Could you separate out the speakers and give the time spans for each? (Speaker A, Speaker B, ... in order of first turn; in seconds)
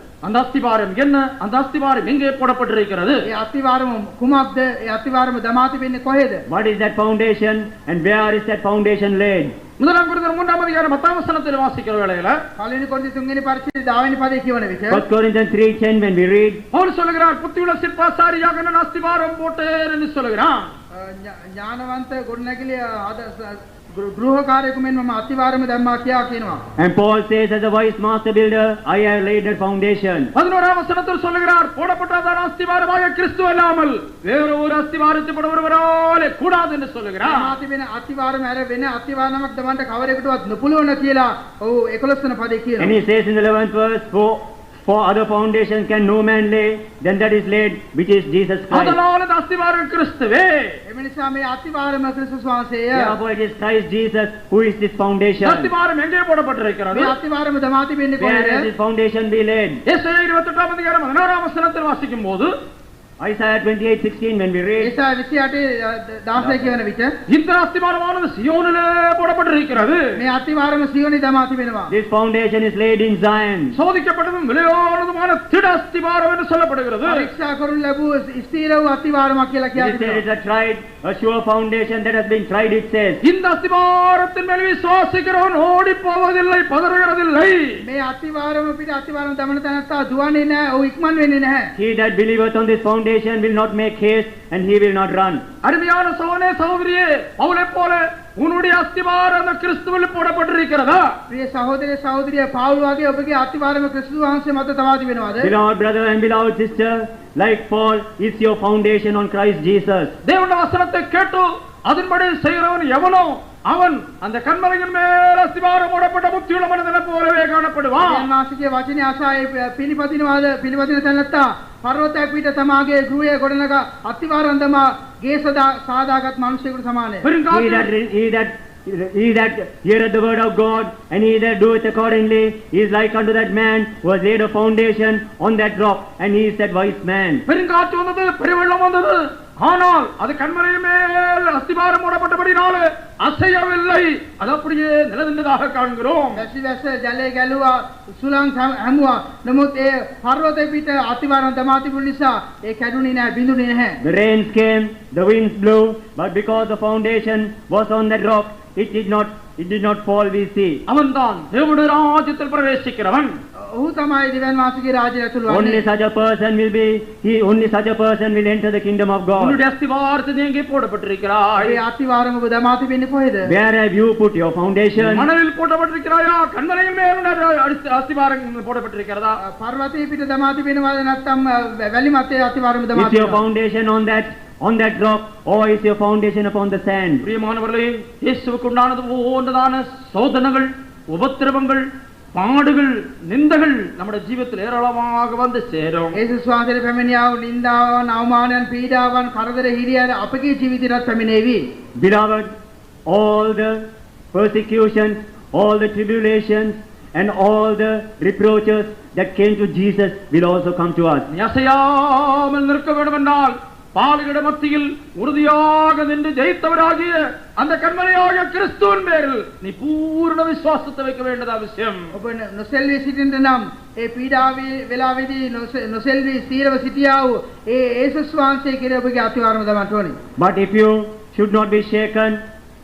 Speaker A: 0.2-3.2, 9.8-12.4, 16.7-20.7, 30.3-37.5, 48.7-50.8, 55.4-57.1, 59.9-62.5, 67.3-70.0, 73.7-77.3, 83.2-87.8, 95.6-101.1, 110.2-118.3, 127.2-127.9, 137.5-146.5, 160.9-163.4, 169.4-171.8, 175.0-179.4, 187.2-196.2, 211.3-222.1
Speaker B: 3.2-6.4, 12.6-15.0, 20.9-26.6, 37.2-43.0, 50.9-53.1, 56.9-58.7, 64.8-67.1, 70.2-71.9, 77.0-80.2, 87.8-91.7, 101.3-105.5, 118.0-127.3, 146.3-154.0, 163.6-165.8, 171.6-173.5, 179.4-183.4, 196.1-201.6, 222.1-230.2
Speaker C: 6.5-9.5, 14.9-16.6, 26.8-30.3, 42.8-49.0, 52.9-55.7, 58.2-59.8, 63.2-64.9, 66.4-66.8, 71.9-73.8, 79.8-83.2, 91.7-95.4, 105.4-110.2, 127.5-137.4, 154.0-160.8, 165.5-169.6, 173.4-175.3, 182.9-187.2, 202.0-202.5, 203.1-211.3, 230.4-232.4